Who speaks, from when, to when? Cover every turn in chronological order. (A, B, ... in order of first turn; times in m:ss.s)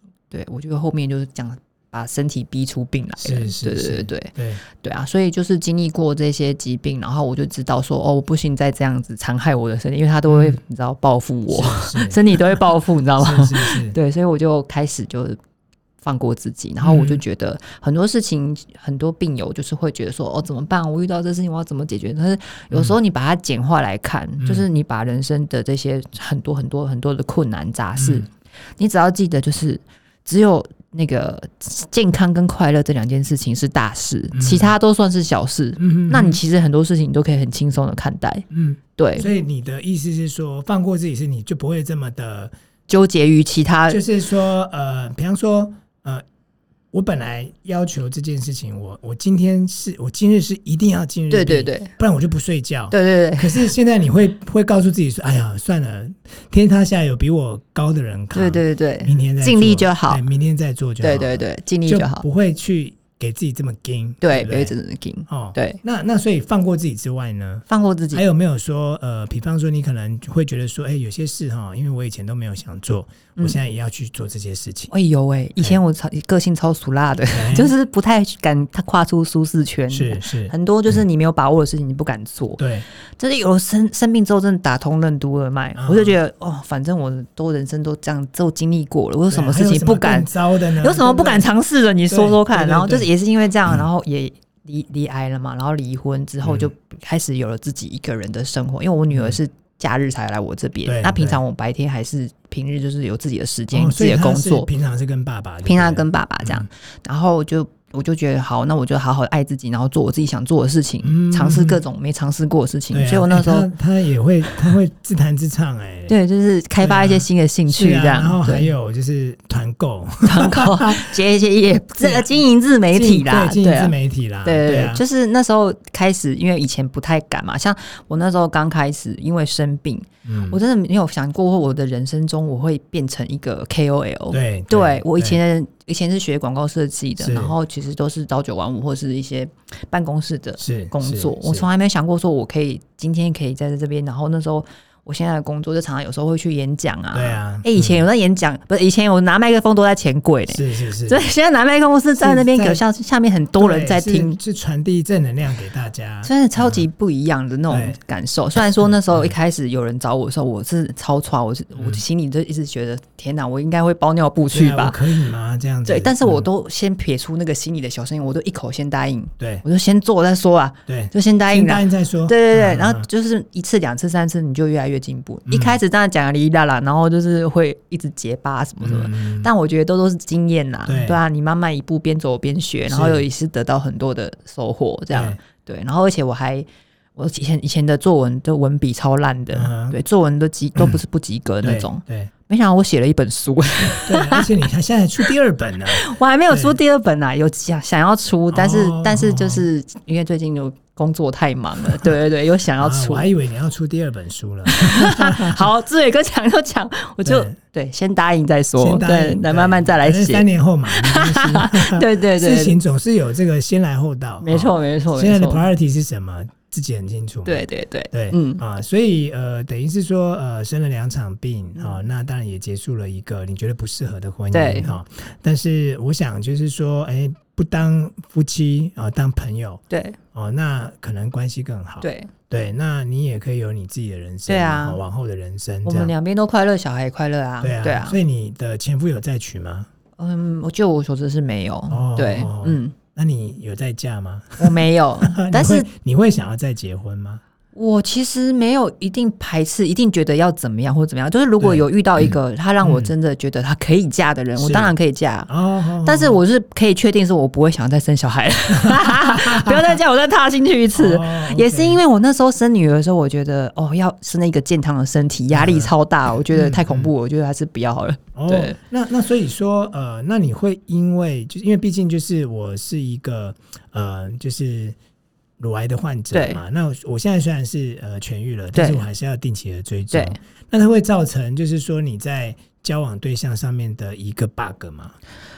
0:00.3-0:15.4 A
0:03.2-0:04.6 B
0:10.3-0:10.6 B
0:11.5-0:12.4 B
0:13.2-0:14.0 B
0:16.0-0:38.4 A
0:16.8-0:17.2 B
0:22.7-0:23.0 B
0:24.4-0:24.6 B
0:28.0-0:28.3 B
0:34.3-0:34.8 B
0:35.8-0:36.4 B
0:38.5-0:42.5 B
0:39.0-0:39.3 A
0:42.9-0:44.0 A
0:43.9-0:46.2 B
0:46.9-1:04.7 B
0:51.3-0:51.9 A
0:52.9-0:53.7 A
0:58.3-1:00.2 A
1:01.0-1:02.2 A
1:04.2-1:05.8 A
1:05.3-1:14.9 B
1:07.7-1:08.2 A
1:14.9-1:22.6 A
1:17.3-1:17.7 B
1:19.9-1:20.5 B
1:22.6-1:22.9 B
1:23.2-1:44.7 A
1:25.8-1:26.2 B
1:29.3-1:31.5 B
1:32.1-1:33.1 B
1:36.4-1:36.7 B
1:40.9-1:41.4 B
1:43.7-1:46.7 B
1:45.6-1:53.7 A
1:51.0-1:51.8 B
1:52.9-1:56.2 B
1:56.1-1:58.7 A
1:56.8-2:01.1 B
2:00.2-2:34.4 A
2:02.0-2:02.4 B
2:02.9-2:05.0 B
2:10.3-2:10.6 B
2:14.3-2:15.4 B
2:17.2-2:17.6 B
2:20.6-2:21.7 B
2:27.1-2:28.0 B
2:30.5-2:31.2 B
2:32.2-2:32.8 B
2:33.6-2:36.8 B
2:36.2-2:45.0 A
2:37.7-2:38.0 B
2:39.1-2:39.4 B
2:41.8-2:42.0 B
2:44.5-2:46.5 B
2:45.9-3:14.5 A
2:49.4-2:49.6 B
2:50.9-2:53.1 B
2:55.5-2:55.8 B
2:58.8-2:59.5 B
3:00.9-3:01.2 B
3:02.9-3:03.2 B
3:05.1-3:05.4 B
3:09.5-3:10.0 B
3:11.6-3:12.3 B
3:14.0-3:16.8 B
3:15.9-3:23.3 A
3:18.5-3:19.7 B
3:22.8-3:25.7 B
3:24.7-3:32.8 A
3:27.2-3:27.6 B
3:28.8-3:49.8 B
3:34.4-3:35.7 A
3:37.5-3:38.6 A
3:44.5-3:45.0 A
3:49.9-3:50.2 A
3:50.4-3:56.1 B
3:52.0-3:52.3 A
3:54.5-3:55.0 A
3:55.8-3:58.2 A
3:57.6-3:59.9 B
4:00.2-4:03.0 A
4:01.9-4:04.7 B
4:04.6-4:05.9 A
4:05.2-4:07.4 B
4:07.8-4:15.5 A
4:11.6-4:13.1 B
4:14.6-4:15.0 B
4:15.5-4:16.4 B
4:16.0-4:28.8 A
4:18.7-4:20.0 B
4:21.0-4:22.0 B
4:25.5-4:25.9 B
4:26.5-4:27.1 B
4:28.4-4:35.0 B
4:35.6-4:45.2 B
4:36.3-4:36.6 A
4:38.7-4:39.0 A
4:40.1-4:40.4 A